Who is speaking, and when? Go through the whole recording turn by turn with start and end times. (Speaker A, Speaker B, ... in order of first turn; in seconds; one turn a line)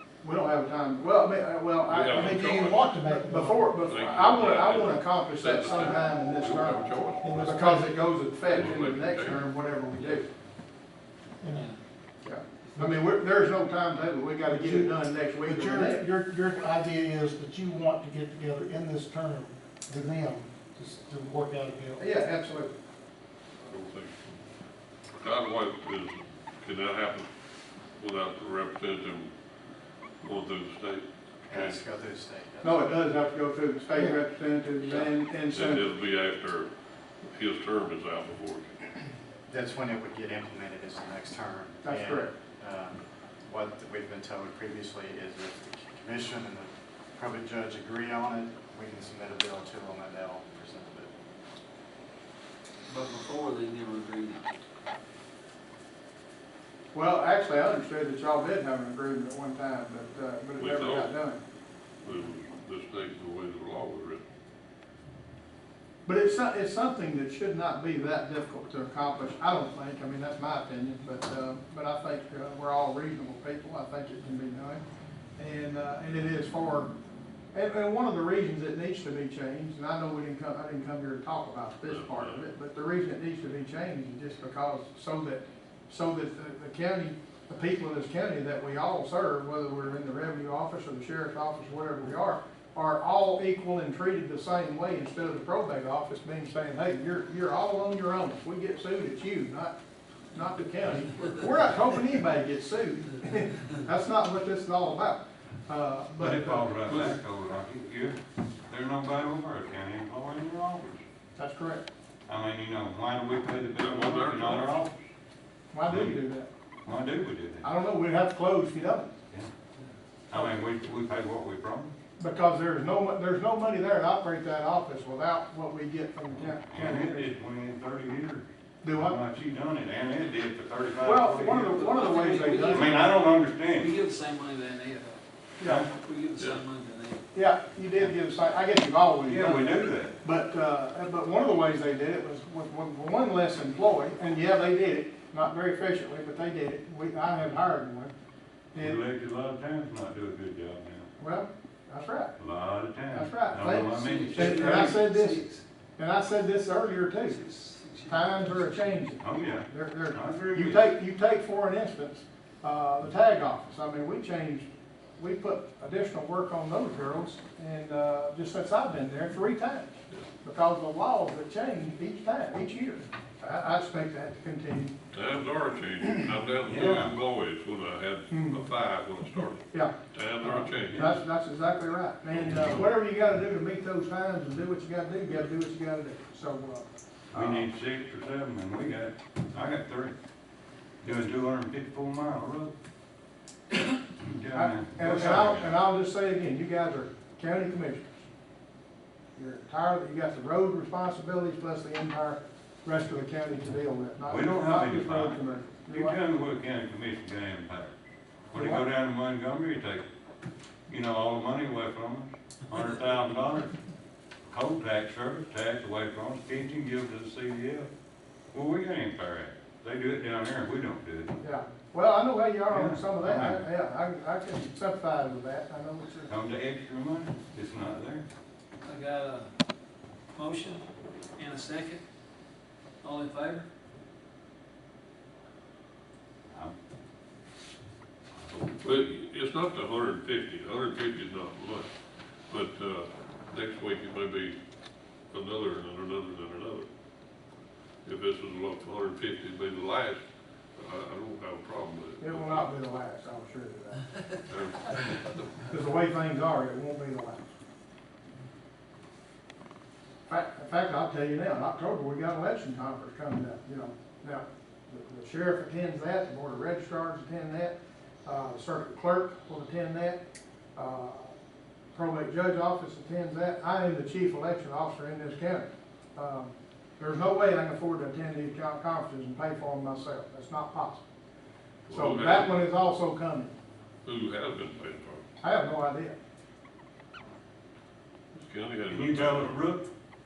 Speaker A: 0.2-10.3
Speaker B: 1.9-2.9
Speaker C: 2.1-3.7
Speaker B: 3.9-7.6
Speaker C: 7.2-7.9
Speaker B: 8.5-9.4
Speaker C: 11.4-11.7
Speaker D: 11.5-11.8
Speaker A: 12.2-16.0
Speaker C: 14.5-22.0
Speaker A: 22.0-22.7
Speaker B: 23.6-24.4
Speaker B: 25.2-27.3
Speaker B: 28.0-29.3
Speaker B: 30.2-31.7
Speaker E: 31.5-32.9
Speaker A: 32.6-35.9
Speaker B: 35.5-36.7
Speaker B: 37.2-38.7
Speaker E: 39.5-51.1
Speaker A: 41.8-42.3
Speaker D: 52.9-54.4
Speaker A: 56.9-61.4
Speaker B: 60.6-61.1
Speaker B: 62.0-64.2
Speaker A: 66.0-74.8
Speaker A: 75.4-76.9
Speaker A: 77.5-99.8
Speaker B: 81.8-82.4
Speaker A: 100.3-107.2
Speaker F: 106.2-111.0
Speaker A: 111.3-111.8
Speaker F: 112.3-114.9
Speaker B: 113.8-114.9
Speaker A: 115.7-116.5
Speaker F: 115.8-116.2
Speaker F: 116.8-117.7
Speaker A: 117.6-119.1
Speaker F: 120.3-121.9
Speaker A: 122.2-127.2
Speaker F: 126.3-131.8
Speaker A: 128.8-129.2
Speaker A: 131.0-133.1
Speaker D: 131.5-135.2
Speaker F: 132.4-133.9
Speaker A: 135.6-135.8
Speaker F: 135.6-135.9
Speaker D: 135.9-137.2
Speaker B: 136.4-136.6
Speaker A: 137.3-148.1
Speaker F: 139.3-140.2
Speaker F: 148.7-151.1
Speaker A: 151.2-152.3
Speaker F: 152.4-154.9
Speaker A: 153.1-157.4
Speaker D: 153.9-155.6
Speaker D: 157.2-159.1
Speaker A: 158.1-164.7
Speaker F: 159.2-160.9
Speaker A: 165.2-174.9
Speaker B: 175.1-181.2
Speaker F: 176.7-177.1
Speaker A: 178.3-178.6
Speaker A: 179.7-187.7
Speaker B: 182.3-182.8
Speaker F: 187.3-190.1
Speaker F: 191.0-192.7
Speaker F: 194.2-195.8
Speaker A: 194.5-198.2
Speaker A: 199.3-206.2
Speaker F: 204.2-207.9
Speaker F: 208.5-210.0
Speaker A: 208.5-208.8
Speaker F: 210.9-213.7
Speaker F: 214.5-217.9
Speaker F: 218.5-221.3
Speaker A: 221.4-226.3
Speaker F: 222.7-223.6
Speaker F: 226.3-228.2
Speaker D: 228.8-229.5
Speaker D: 230.3-230.8
Speaker D: 231.4-232.0
Speaker D: 233.0-233.7
Speaker F: 236.5-236.8
Speaker F: 238.3-238.9
Speaker B: 238.8-241.9
Speaker B: 242.5-244.6
Speaker B: 245.3-246.8
Speaker B: 248.1-250.2
Speaker B: 250.8-252.7
Speaker A: 252.2-254.1
Speaker B: 254.5-255.5
Speaker A: 255.7-257.5
Speaker A: 260.3-270.2
Speaker A: 270.8-271.3
Speaker A: 271.9-281.0
Speaker B: 281.9-282.6
Speaker A: 281.9-283.5
Speaker B: 284.0-285.2
Speaker A: 285.4-286.1
Speaker B: 288.3-289.6
Speaker F: 288.9-289.9